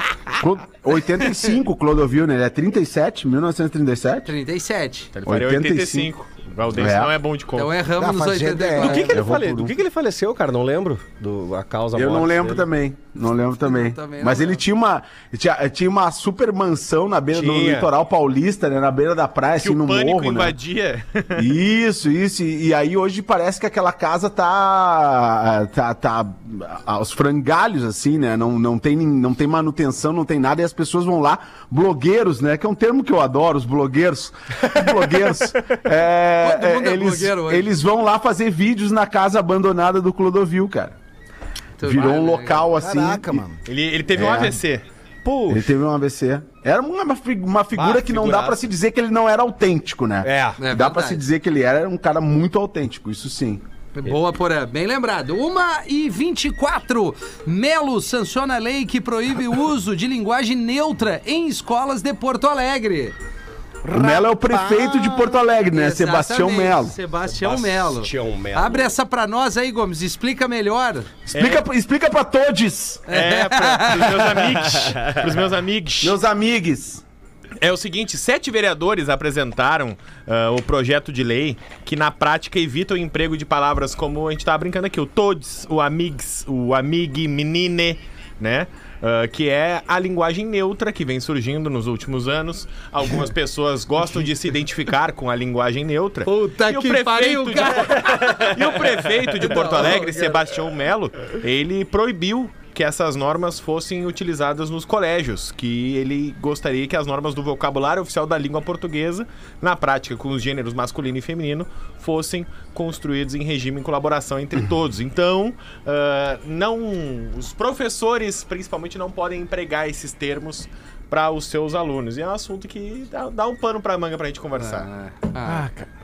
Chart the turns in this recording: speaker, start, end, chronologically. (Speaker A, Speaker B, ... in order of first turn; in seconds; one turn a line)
Speaker A: 0.4-4.3
Speaker B: 4.2-5.1
Speaker C: 5.2-7.8
Speaker A: 5.3-6.1
Speaker A: 6.7-7.2
Speaker B: 7.5-9.2
Speaker D: 8.0-9.1
Speaker E: 8.8-12.7
Speaker A: 9.1-9.8
Speaker A: 11.9-20.6
Speaker B: 13.7-14.6
Speaker E: 17.3-17.9
Speaker C: 19.6-21.5
Speaker A: 21.4-41.0
Speaker B: 36.4-37.7
Speaker B: 41.8-42.7
Speaker A: 41.8-43.4
Speaker D: 42.8-43.6
Speaker C: 43.7-44.8
Speaker A: 44.1-44.6
Speaker E: 45.2-45.7
Speaker A: 45.5-53.6
Speaker E: 47.7-48.6
Speaker E: 50.2-50.6
Speaker B: 50.6-51.3
Speaker B: 54.0-63.1
Speaker D: 63.8-65.4
Speaker A: 63.9-67.0
Speaker B: 65.7-71.1
Speaker E: 67.2-68.9
Speaker A: 71.3-73.1
Speaker C: 71.3-71.6
Speaker B: 73.1-74.3
Speaker C: 73.1-76.2
Speaker E: 74.7-75.2
Speaker A: 76.0-77.0
Speaker C: 77.6-124.9
Speaker B: 96.2-100.4
Speaker B: 124.6-125.7